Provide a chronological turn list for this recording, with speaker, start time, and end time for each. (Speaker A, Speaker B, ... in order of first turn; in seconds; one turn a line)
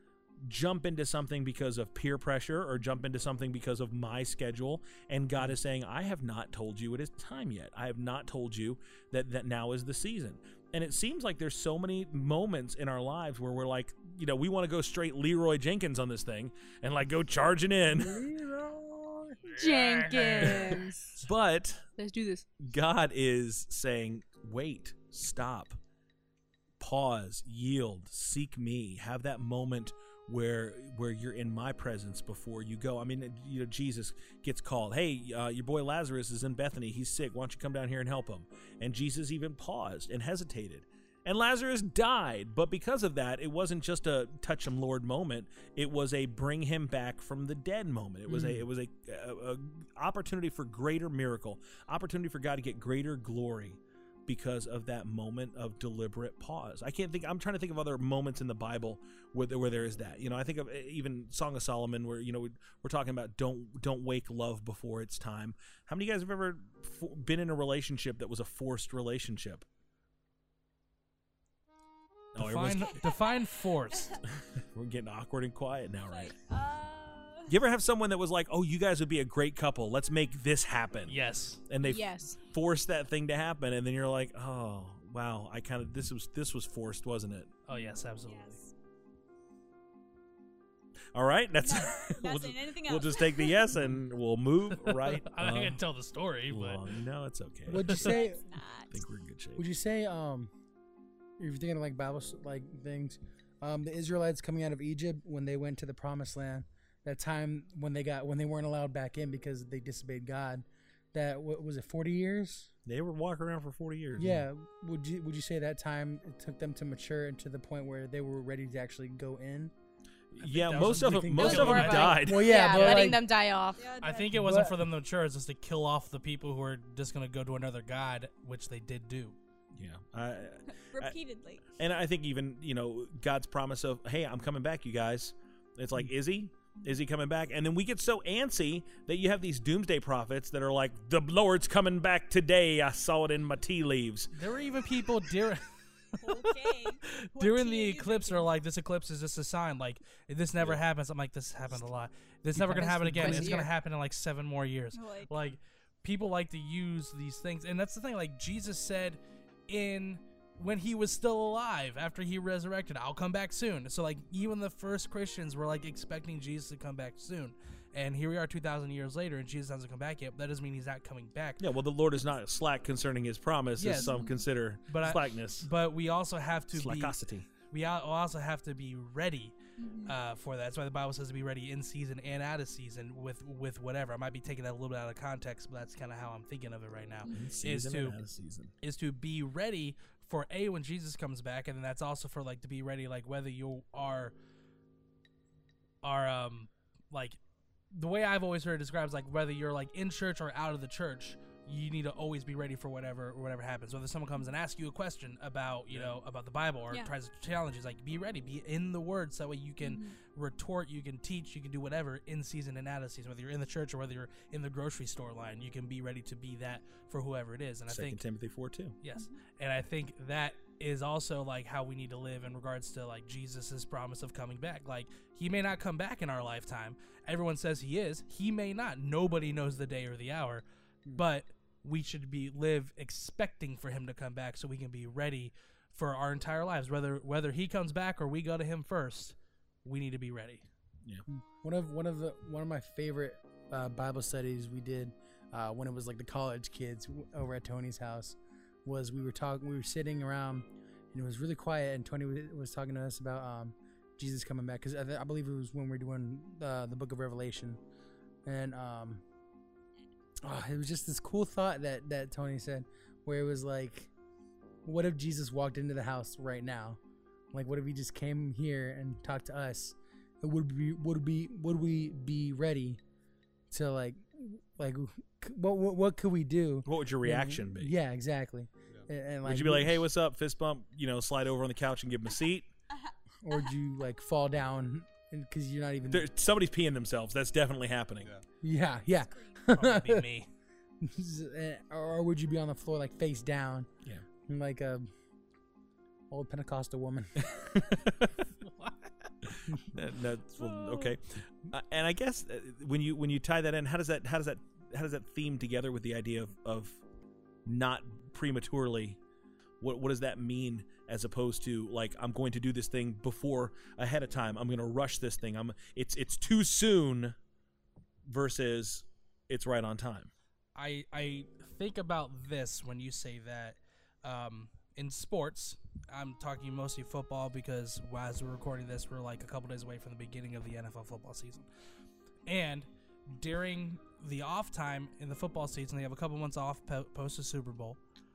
Speaker A: 0.4-18.2
Speaker B: 18.0-19.5
Speaker C: 19.5-20.6
Speaker D: 19.6-21.1
Speaker A: 21.1-21.9
Speaker D: 22.0-22.5
Speaker A: 22.6-25.8
Speaker A: 26.8-69.7
Speaker B: 48.3-48.6
Speaker A: 72.3-73.0
Speaker C: 72.4-74.2
Speaker E: 72.9-74.2
Speaker A: 74.6-76.3
Speaker E: 76.1-77.5
Speaker A: 77.5-87.5
Speaker C: 81.1-81.6
Speaker D: 81.8-82.4
Speaker C: 87.7-88.6
Speaker E: 87.7-88.7
Speaker A: 91.2-95.8
Speaker E: 91.6-93.7
Speaker C: 94.9-96.8
Speaker A: 96.5-98.0
Speaker B: 97.7-98.4
Speaker E: 97.9-98.9
Speaker A: 98.9-99.6
Speaker B: 99.6-100.5
Speaker B: 101.4-112.7
Speaker A: 112.9-114.5
Speaker B: 114.2-119.7
Speaker A: 120.3-122.5
Speaker C: 120.4-122.2
Speaker B: 121.0-123.2
Speaker D: 121.4-123.9
Speaker E: 122.5-123.1
Speaker E: 123.8-124.4
Speaker C: 124.0-129.4
Speaker B: 124.3-124.8
Speaker A: 129.8-131.2
Speaker E: 130.7-131.6
Speaker A: 131.8-144.3
Speaker C: 144.3-171.6
Speaker E: 146.2-148.5
Speaker B: 152.5-153.6
Speaker D: 153.2-153.7
Speaker E: 154.9-155.4
Speaker A: 171.6-175.7
Speaker C: 173.8-174.2
Speaker E: 174.0-174.4
Speaker C: 174.9-179.6
Speaker A: 176.7-177.5
Speaker E: 179.8-180.2
Speaker C: 180.1-188.2
Speaker A: 187.3-188.7
Speaker C: 188.8-194.3
Speaker C: 196.0-197.4
Speaker C: 197.9-218.2
Speaker E: 209.8-210.2
Speaker A: 217.9-219.0
Speaker C: 219.0-240.6
Speaker B: 241.3-257.8
Speaker B: 258.5-259.2
Speaker B: 260.4-264.1
Speaker B: 264.8-267.0
Speaker B: 267.5-273.0
Speaker B: 273.7-280.0
Speaker A: 276.9-277.9
Speaker A: 279.4-282.7
Speaker B: 283.4-286.3
Speaker A: 286.1-288.3
Speaker B: 288.6-290.3
Speaker C: 289.7-290.5
Speaker B: 291.0-293.9
Speaker B: 294.5-295.1
Speaker B: 296.3-297.5
Speaker A: 297.5-298.3
Speaker C: 298.6-299.1
Speaker A: 299.4-307.0
Speaker C: 300.6-301.1
Speaker A: 307.6-309.2
Speaker A: 309.8-317.4
Speaker A: 318.3-320.3
Speaker C: 320.8-331.7
Speaker C: 332.5-338.0